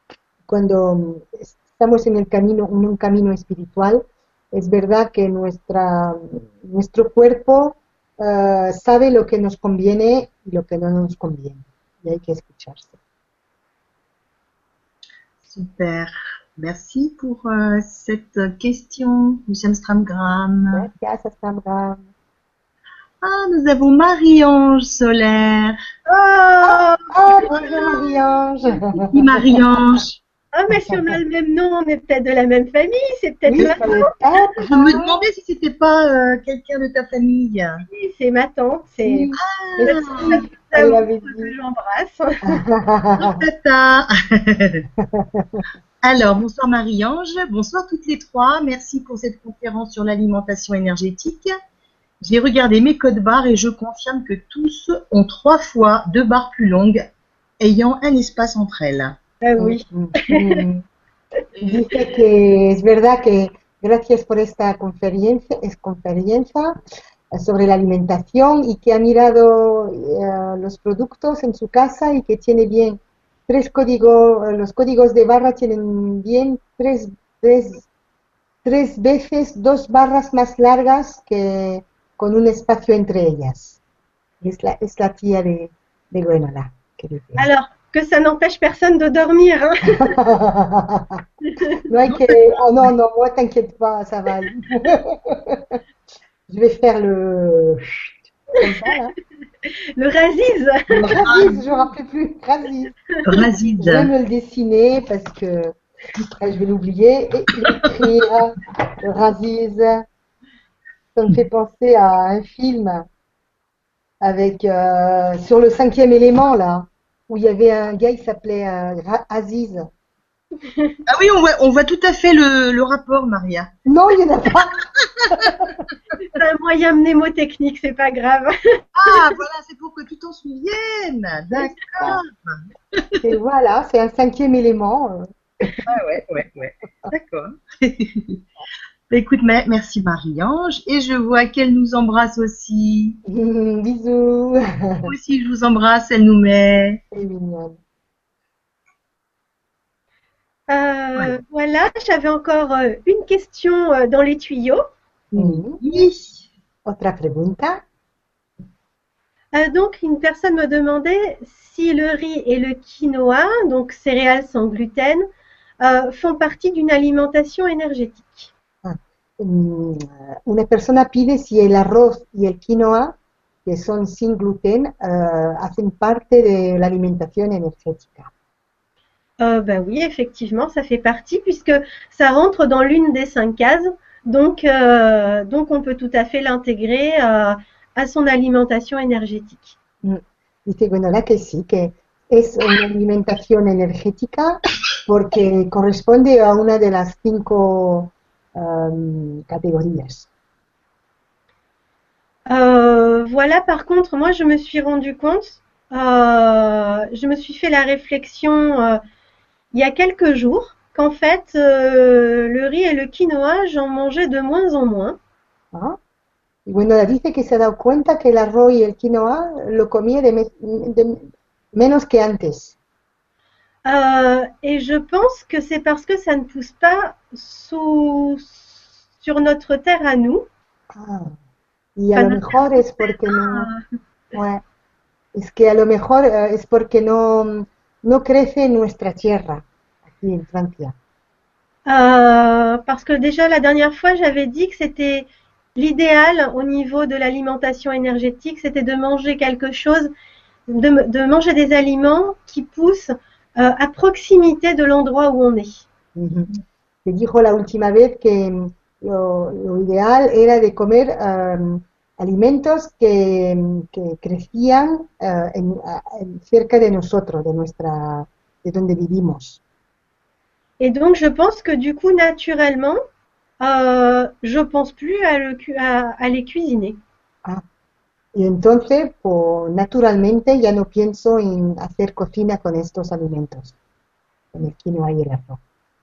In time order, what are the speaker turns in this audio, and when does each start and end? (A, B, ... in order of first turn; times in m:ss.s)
0:00.5-0:13.0 A
0:15.4-0:20.8 B
0:20.7-0:22.0 A
0:23.2-0:25.8 B
0:26.1-0:28.4 C
0:26.6-0:29.6 A
0:29.1-0:30.2 B
0:30.5-0:34.1 C
0:30.7-0:31.2 A
0:33.5-0:35.2 A
0:34.7-0:37.8 B
0:37.9-0:42.6 C
0:39.0-0:41.5 A
0:39.4-0:40.4 B
0:42.4-0:43.4 A
0:43.2-0:44.8 B
0:45.1-0:45.6 A
0:46.0-0:51.5 B
0:52.2-0:57.0 B
0:57.6-0:59.2 B
0:59.4-1:00.6 C
0:59.6-1:00.8 A
1:01.6-1:06.8 A
1:07.3-1:17.9 A
1:18.6-1:23.8 A
1:24.4-1:27.5 A
1:27.4-1:30.2 C
1:29.9-1:31.2 A
1:31.5-1:31.8 C
1:31.9-1:35.8 A
1:32.1-1:32.4 B
1:36.5-1:37.8 A
1:38.6-1:39.1 A
1:40.0-1:41.2 C
1:40.9-1:41.6 B
1:41.1-1:43.0 A
1:43.2-1:44.1 B
1:43.8-1:45.8 A
1:46.3-1:50.0 A
1:51.1-1:53.0 A
1:54.2-1:59.9 A
2:00.6-2:01.0 C
2:01.1-2:03.7 B
2:03.8-2:05.7 A
2:06.3-2:09.3 C
2:08.9-2:13.2 B
2:11.5-2:12.2 A
2:13.2-2:15.8 A
2:15.8-2:18.4 B
2:19.1-2:23.2 B
2:23.3-2:25.1 A
2:25.0-2:27.0 B
2:27.1-2:27.8 A
2:30.7-2:34.8 C
2:35.3-2:36.5 B
2:35.4-2:35.8 A
2:36.8-2:37.8 A
2:39.5-2:45.2 C
2:45.8-2:48.5 C
2:48.8-2:58.3 A
2:59.4-3:09.8 C
3:10.0-3:20.3 A
3:22.5-3:29.0 C
3:29.7-3:35.2 C
3:35.7-3:36.0 A
3:36.6-3:42.8 A
3:43.8-3:50.5 C
3:50.9-3:51.3 A
3:52.0-3:53.7 A
3:52.1-3:53.8 C
3:54.3-3:54.6 A
3:55.3-4:00.9 A
4:01.8-4:10.1 C
4:10.7-4:15.8 C
4:16.1-4:16.5 A
4:17.0-4:29.6 A
4:30.8-4:33.0 C
4:33.6-4:37.0 C
4:38.3-4:43.7 A
4:44.5-4:45.6 A